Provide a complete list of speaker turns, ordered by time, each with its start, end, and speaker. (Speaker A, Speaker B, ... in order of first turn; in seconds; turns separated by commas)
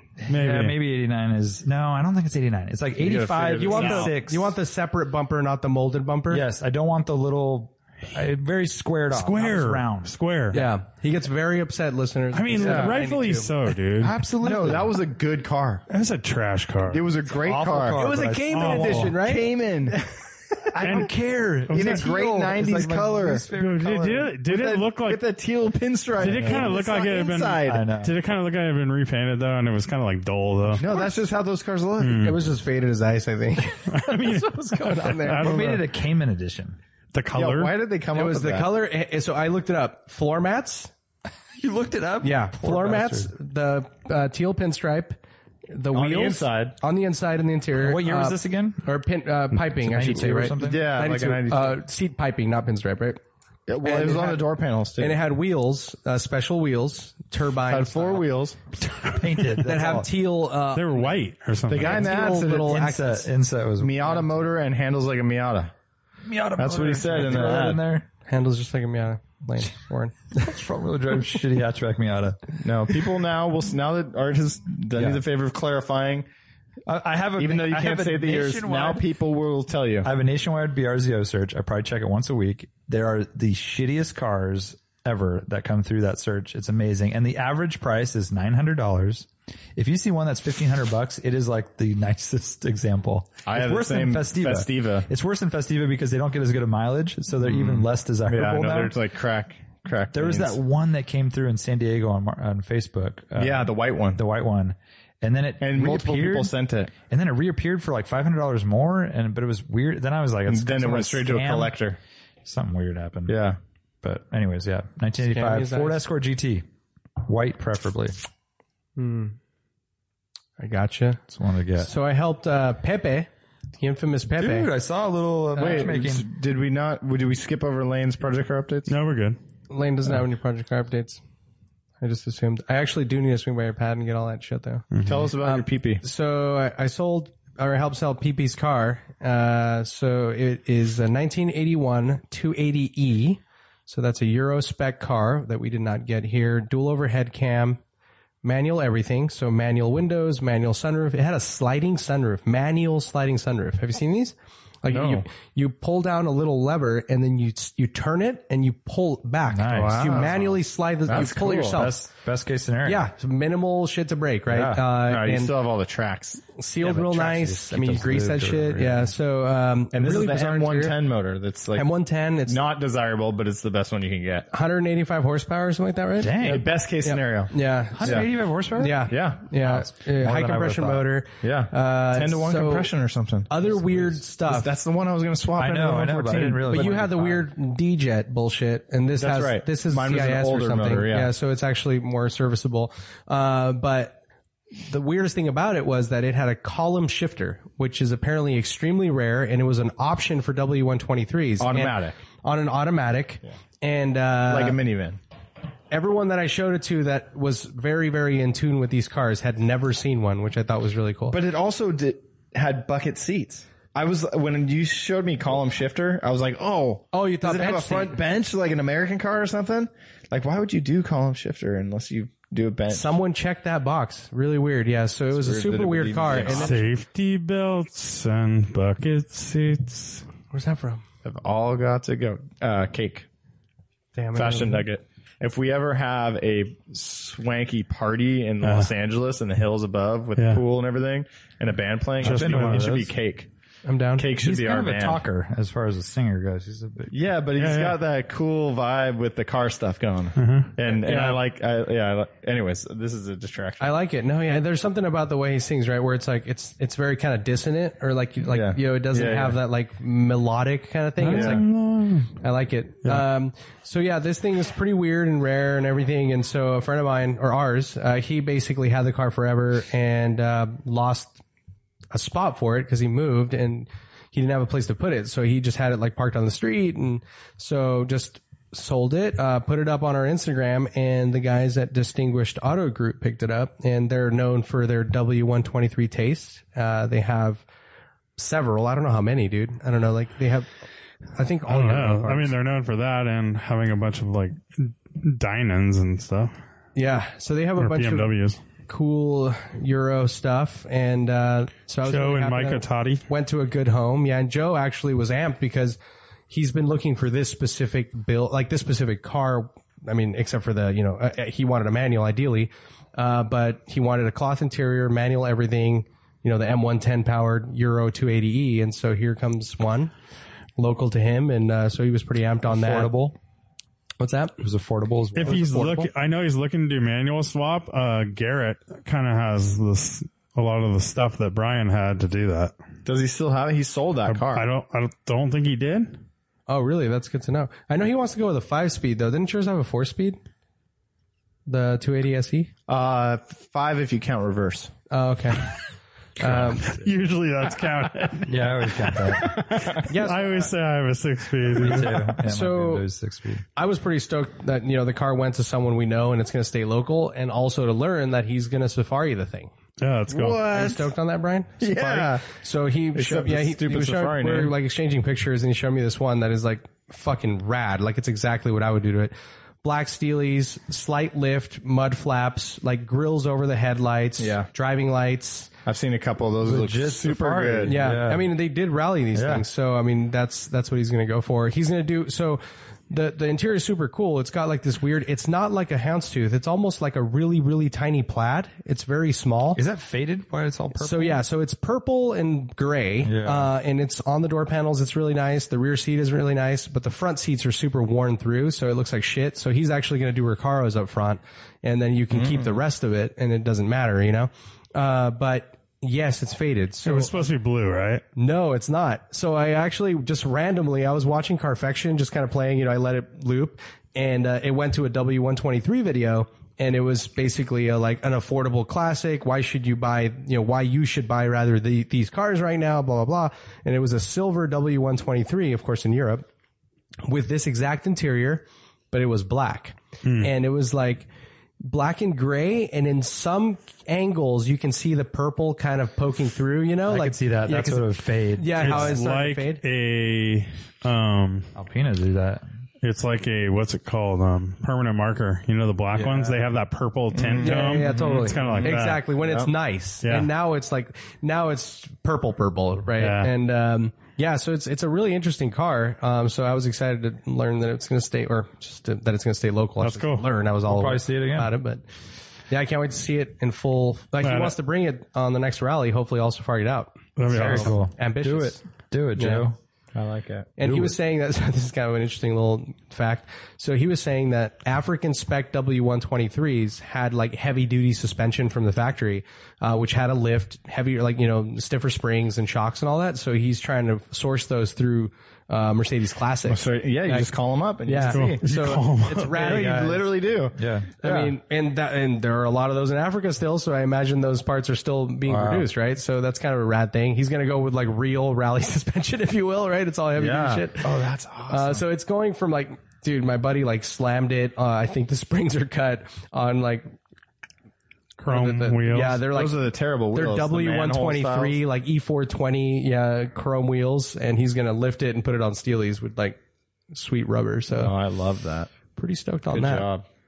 Speaker A: 0.2-4.5, Speaker B: 0.3-0.8, Speaker C: 3.0-4.1, Speaker D: 3.6-6.4, Speaker A: 6.3-10.6, Speaker B: 9.1-10.6, Speaker D: 10.5-13.5, Speaker B: 12.3-14.2, Speaker C: 12.6-12.9, Speaker A: 14.0-14.9, Speaker C: 14.4-15.8, Speaker B: 15.9-17.1, Speaker C: 16.9-18.0, Speaker A: 17.3-19.1, Speaker D: 17.9-19.6, Speaker B: 18.5-19.2, Speaker C: 18.9-20.0, Speaker A: 20.7-24.3, Speaker C: 20.8-21.1, Speaker B: 20.8-21.1, Speaker B: 21.7-22.0, Speaker C: 21.7-23.5, Speaker B: 23.6-25.2, Speaker C: 24.3-27.9, Speaker B: 26.2-30.9, Speaker A: 26.2-26.8, Speaker A: 27.6-28.1, Speaker C: 30.8-32.4, Speaker D: 30.8-31.1, Speaker B: 32.0-32.4, Speaker D: 32.2-35.8, Speaker B: 33.9-35.9, Speaker A: 35.2-36.8, Speaker B: 37.1-37.8, Speaker C: 37.3-38.7, Speaker D: 38.1-40.9, Speaker A: 41.6-43.3, Speaker D: 42.2-53.2, Speaker C: 45.9-46.8, Speaker A: 47.8-48.9, Speaker A: 49.8-50.9, Speaker C: 50.6-51.8, Speaker C: 53.7-55.2, Speaker D: 53.8-54.5, Speaker D: 55.0-58.2, Speaker C: 57.7-58.6, Speaker A: 58.8-60.1, Speaker D: 59.6-61.1, Speaker B: 60.8-62.1, Speaker C: 61.7-62.8, Speaker D: 61.8-63.3, Speaker A: 62.5-64.2, Speaker C: 63.8-65.7, Speaker A: 66.2-68.1, Speaker C: 66.6-67.8, Speaker D: 68.3-70.2, Speaker A: 70.3-72.5, Speaker C: 72.6-76.3, Speaker A: 74.9-75.2, Speaker A: 76.9-79.1, Speaker C: 77.4-80.1, Speaker A: 80.0-99.0, Speaker C: 93.5-95.1, Speaker C: 97.4-100.6, Speaker A: 100.1-111.8, Speaker C: 103.4-104.2, Speaker C: 105.6-106.9, Speaker C: 110.5-112.0, Speaker A: 112.4-113.4, Speaker C: 113.3-113.6, Speaker A: 114.0-116.7, Speaker D: 115.3-116.0, Speaker A: 117.2-118.1, Speaker D: 119.0-119.4, Speaker D: 120.6-121.2, Speaker A: 121.3-121.9, Speaker D: 121.8-124.7, Speaker A: 124.4-126.3, Speaker D: 125.6-125.9, Speaker C: 125.6-128.9, Speaker B: 128.9-129.4, Speaker D: 129.7-131.2, Speaker D: 132.0-134.9, Speaker B: 134.9-135.3, Speaker C: 135.1-136.0, Speaker D: 135.4-147.8, Speaker D: 148.4-162.1, Speaker C: 154.9-155.2, Speaker A: 159.5-160.5, Speaker C: 159.7-160.5, Speaker C: 161.1-161.9, Speaker A: 161.1-163.1, Speaker D: 162.8-165.5, Speaker A: 164.5-164.9, Speaker C: 165.0-166.5, Speaker D: 166.6-171.0, Speaker A: 166.8-169.1, Speaker C: 169.9-171.9, Speaker D: 171.7-172.6, Speaker C: 172.5-174.5, Speaker D: 174.5-176.5, Speaker A: 176.2-176.7, Speaker C: 176.4-178.3, Speaker D: 177.0-182.9, Speaker A: 177.9-181.1, Speaker C: 179.1-179.5, Speaker C: 181.4-187.0, Speaker D: 183.5-184.7, Speaker A: 185.6-187.5, Speaker D: 186.7-194.2, Speaker C: 189.2-191.3, Speaker D: 194.8-204.8, Speaker C: 201.6-202.2, Speaker C: 204.5-205.2, Speaker D: 205.9-211.4, Speaker C: 211.3-223.2, Speaker D: 217.1-218.2, Speaker D: 222.9-226.8, Speaker C: 225.3-226.8, Speaker B: 226.4-230.2, Speaker D: 230.5-231.0, Speaker C: 231.2-233.3, Speaker D: 234.2-234.8, Speaker C: 234.3-243.5, Speaker B: 238.6-238.9, Speaker B: 240.4-240.6, Speaker A: 242.2-243.1, Speaker B: 242.2-242.9, Speaker D: 243.8-244.3, Speaker C: 244.2-245.2, Speaker A: 244.4-247.2, Speaker C: 247.1-254.0, Speaker B: 247.6-248.0, Speaker B: 250.4-250.7, Speaker D: 250.9-251.4, Speaker D: 253.8-261.6, Speaker C: 258.5-259.6, Speaker B: 261.2-262.3, Speaker A: 261.3-261.7, Speaker C: 261.3-261.6, Speaker D: 262.4-271.4, Speaker D: 272.1-287.6, Speaker D: 288.4-290.7, Speaker D: 291.4-292.5, Speaker B: 291.7-296.5, Speaker D: 297.0-306.0, Speaker B: 297.8-298.6, Speaker B: 302.1-303.2, Speaker D: 306.5-320.1, Speaker D: 320.8-323.1, Speaker A: 322.7-323.4, Speaker D: 324.2-324.6, Speaker A: 324.6-326.1, Speaker B: 325.4-332.7, Speaker C: 333.1-334.7, Speaker B: 334.3-336.2, Speaker D: 336.7-340.4, Speaker D: 341.7-342.7, Speaker C: 342.9-344.9, Speaker D: 345.1-345.7, Speaker D: 346.4-346.9, Speaker A: 346.5-346.9, Speaker B: 346.6-352.2, Speaker A: 348.4-350.0, Speaker D: 350.1-350.7, Speaker A: 351.7-353.6, Speaker D: 352.1-353.1, Speaker D: 353.8-359.7, Speaker B: 360.0-360.7, Speaker C: 360.3-361.1, Speaker D: 360.5-375.7, Speaker C: 361.8-362.5, Speaker C: 363.1-364.7, Speaker C: 374.4-374.7, Speaker C: 375.9-378.0, Speaker A: 376.6-378.5, Speaker D: 377.8-389.8, Speaker A: 379.3-379.6, Speaker A: 389.8-391.4, Speaker D: 391.0-407.5, Speaker A: 393.2-393.7, Speaker B: 407.0-408.2, Speaker D: 408.4-426.5, Speaker D: 427.2-431.3, Speaker B: 430.2-430.5, Speaker D: 431.8-439.8, Speaker A: 437.1-439.2, Speaker B: 438.8-441.7, Speaker A: 441.8-442.6, Speaker B: 443.0-449.3, Speaker A: 446.1-446.6, Speaker C: 447.4-448.1, Speaker D: 447.6-462.0, Speaker A: 448.1-448.5, Speaker C: 448.6-449.7, Speaker B: 450.2-450.5, Speaker B: 453.2-453.5, Speaker B: 460.0-460.4, Speaker A: 460.9-461.7, Speaker D: 462.7-468.8, Speaker B: 464.4-464.8, Speaker B: 467.4-468.0, Speaker A: 467.5-469.8, Speaker D: 469.4-469.7, Speaker C: 470.1-470.7, Speaker D: 470.8-487.5, Speaker A: 470.8-471.2, Speaker C: 486.7-488.6, Speaker D: 488.1-490.2, Speaker B: 488.3-489.6, Speaker C: 489.5-490.8, Speaker A: 489.6-491.5, Speaker D: 491.2-501.1, Speaker A: 495.5-495.9, Speaker A: 500.4-502.0, Speaker D: 501.7-507.1, Speaker B: 508.4-509.4, Speaker D: 508.5-509.8, Speaker C: 509.5-511.8, Speaker D: 510.3-516.6, Speaker D: 517.1-518.1, Speaker C: 518.0-518.9, Speaker D: 519.2-520.1, Speaker C: 519.7-520.2